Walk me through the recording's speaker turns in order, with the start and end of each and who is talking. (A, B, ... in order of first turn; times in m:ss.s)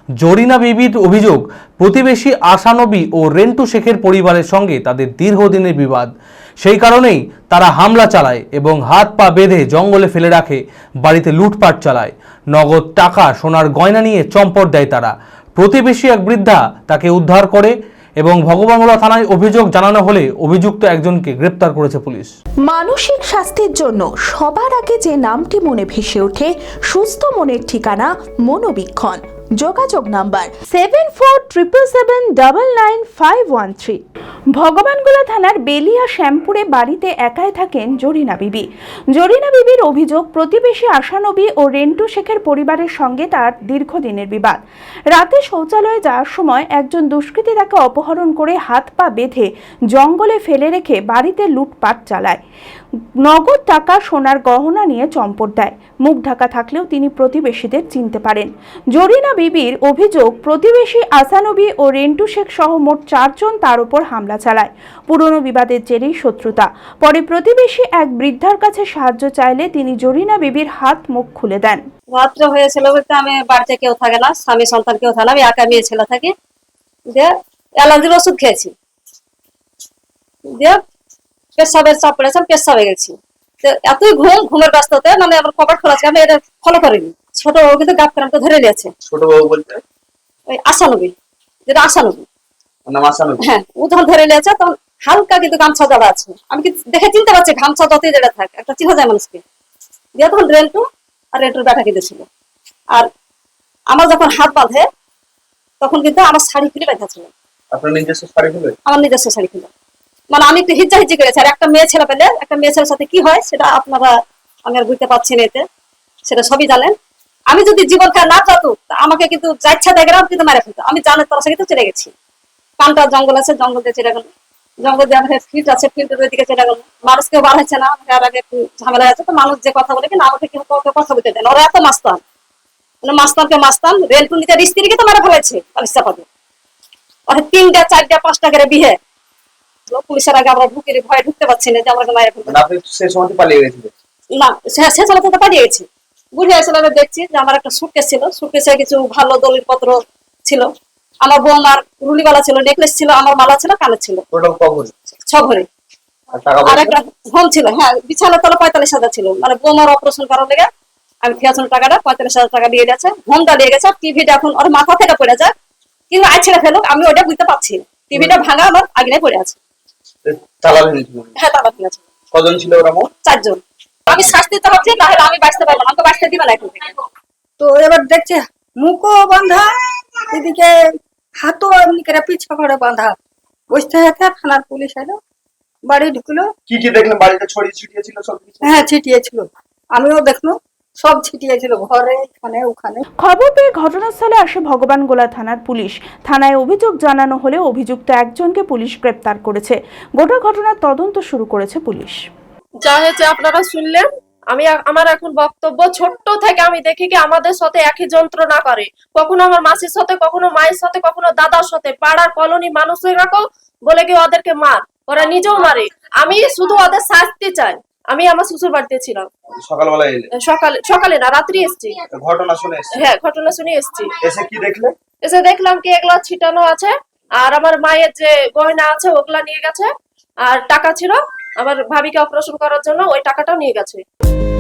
0:00.2-0:06.1 A
0:06.6-0:22.3 A
0:22.8-0:25.7 B
0:29.0-0:34.0 B
0:34.6-0:44.6 B
0:45.1-0:52.4 B
0:53.2-1:11.8 B
1:12.1-1:16.3 C
1:17.1-1:18.7 C
1:20.5-1:20.8 C
1:21.6-1:28.9 C
1:29.1-1:29.8 D
1:30.5-1:31.1 C
1:31.7-1:32.3 C
1:32.9-1:33.4 D
1:33.4-1:39.4 C
1:40.2-1:42.3 C
1:43.9-1:44.9 C
1:45.8-1:47.3 C
1:47.7-1:48.8 D
1:48.9-1:49.7 C
1:50.3-1:54.1 C
1:54.6-1:55.6 C
1:56.3-1:57.0 C
1:57.5-2:02.1 C
2:02.8-2:12.2 C
2:13.0-2:16.3 C
2:17.3-2:19.0 C
2:19.9-2:22.6 C
2:22.5-2:23.9 D
2:24.4-2:30.7 C
2:31.2-2:34.2 C
2:34.3-2:34.9 D
2:35.2-2:35.7 C
2:36.4-2:37.0 D
2:36.6-2:40.7 C
2:41.2-2:45.5 C
2:46.1-2:49.6 C
2:50.2-2:51.3 D
2:51.4-2:52.0 C
2:52.3-2:53.1 D
2:53.2-2:56.9 C
2:54.1-2:54.3 D
2:57.6-2:59.8 E
3:00.3-3:03.2 E
3:03.7-3:05.2 E
3:05.9-3:06.5 E
3:06.7-3:08.9 D
3:08.6-3:13.0 E
3:13.2-3:22.2 B
3:22.8-3:39.3 F
3:39.6-3:40.3 D
3:40.4-3:42.0 F
3:42.1-3:43.1 D
3:43.0-3:44.1 F
3:44.2-3:44.9 D
3:45.2-3:49.9 F
3:50.4-3:54.0 F